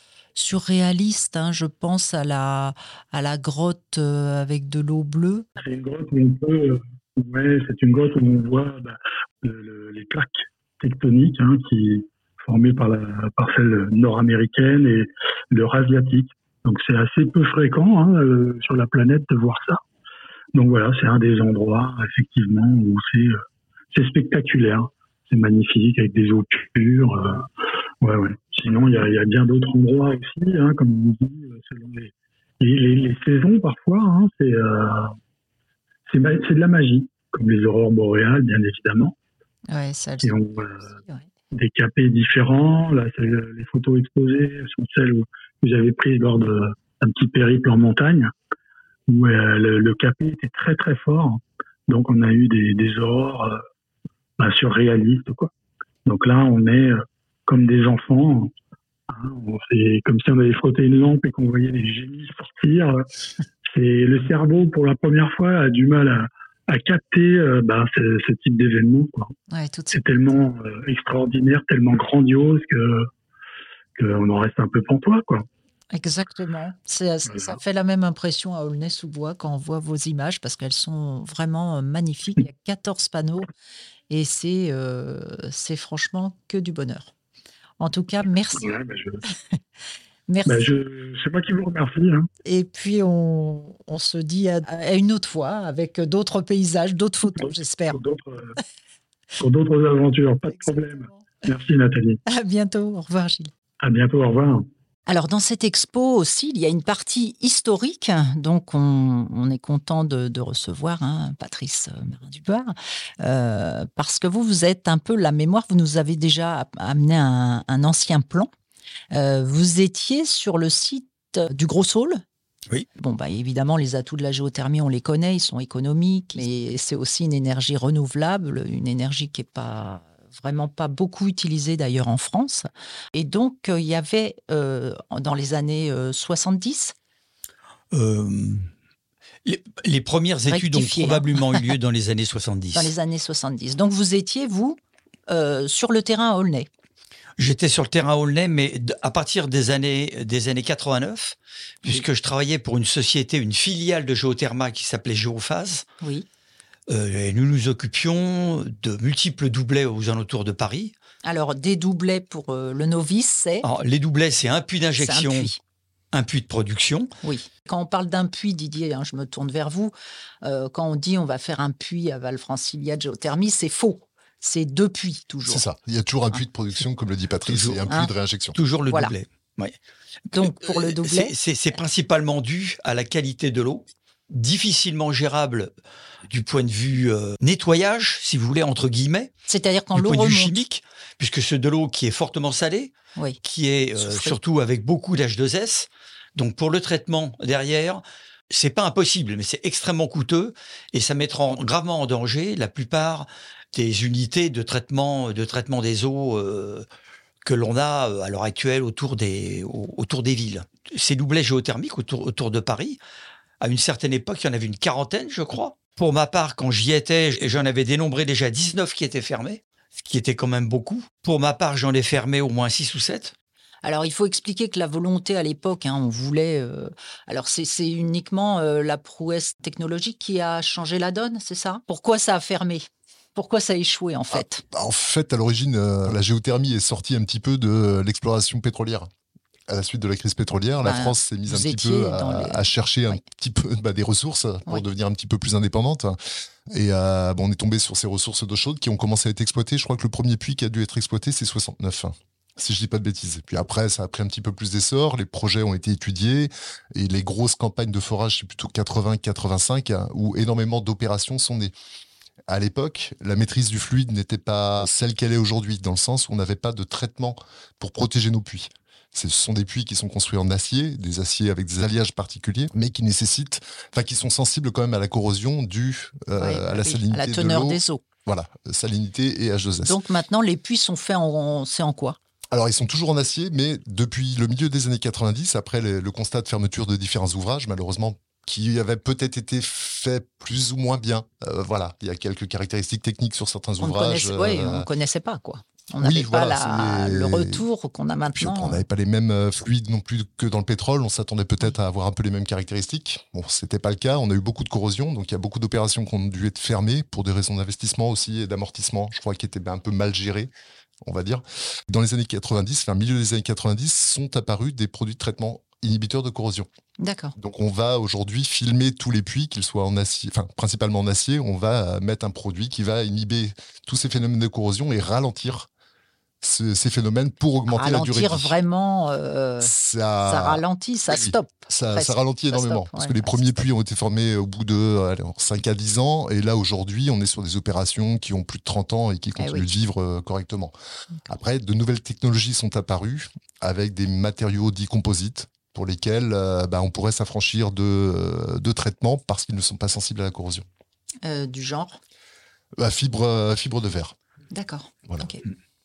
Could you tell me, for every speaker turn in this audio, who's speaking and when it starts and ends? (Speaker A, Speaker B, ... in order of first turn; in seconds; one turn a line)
Speaker A: 0.3-5.5
Speaker B: 5.6-19.8
Speaker B: 20.5-23.4
Speaker B: 23.9-27.4
Speaker B: 28.0-35.1
Speaker B: 36.1-39.1
Speaker A: 39.7-41.2
Speaker B: 40.2-40.9
Speaker B: 41.5-48.3
Speaker B: 49.1-53.6
Speaker B: 54.4-55.5
Speaker B: 56.0-58.5
Speaker B: 59.1-63.0
Speaker B: 63.6-69.3
Speaker A: 69.5-70.5
Speaker B: 69.9-73.1
Speaker B: 74.0-75.5
Speaker A: 75.9-83.5
Speaker B: 77.3-77.6
Speaker A: 84.1-87.1
Speaker A: 87.8-88.7
Speaker B: 88.5-89.2
Speaker A: 90.3-90.7
Speaker B: 90.5-92.3
Speaker A: 92.4-98.0
Speaker B: 97.3-98.5
Speaker B: 99.4-102.2
Speaker A: 100.5-101.2
Speaker A: 102.3-103.5
Speaker B: 103.8-104.7
Speaker A: 105.1-118.5
Speaker A: 119.1-122.2
Speaker A: 123.0-136.9
Speaker C: 137.9-138.7
Speaker C: 139.4-142.9
Speaker A: 140.5-141.7
Speaker A: 142.7-146.7
Speaker C: 147.4-155.8
Speaker A: 156.0-156.2
Speaker C: 156.9-160.9
Speaker A: 161.2-163.7
Speaker C: 163.6-165.5
Speaker A: 165.0-165.6
Speaker C: 166.1-167.1
Speaker A: 167.2-175.6
Speaker D: 175.4-178.6
Speaker C: 177.4-177.8
Speaker C: 178.5-179.7
Speaker A: 180.3-181.3
Speaker C: 180.3-185.7
Speaker C: 186.3-189.3
Speaker A: 189.5-190.5
Speaker C: 189.9-192.9
Speaker C: 193.4-206.8
Speaker A: 194.0-194.4
Speaker C: 207.4-213.0
Speaker C: 213.6-223.3
Speaker A: 223.8-234.6
Speaker D: 234.3-239.1
Speaker D: 239.7-246.2
Speaker A: 240.8-243.2
Speaker D: 246.7-261.7
Speaker D: 262.5-280.0
Speaker A: 276.4-278.0
Speaker A: 279.8-282.2
Speaker D: 282.5-294.9
Speaker A: 293.8-298.8
Speaker D: 296.0-297.6
Speaker D: 298.3-310.5
Speaker D: 311.0-316.7
Speaker A: 317.0-317.4
Speaker D: 317.4-325.7
Speaker D: 326.4-328.6
Speaker A: 327.7-329.7
Speaker D: 329.6-340.7
Speaker A: 330.2-333.4
Speaker A: 339.4-339.7
Speaker D: 341.3-350.6
Speaker A: 351.2-352.0
Speaker D: 352.8-354.1
Speaker A: 354.5-355.4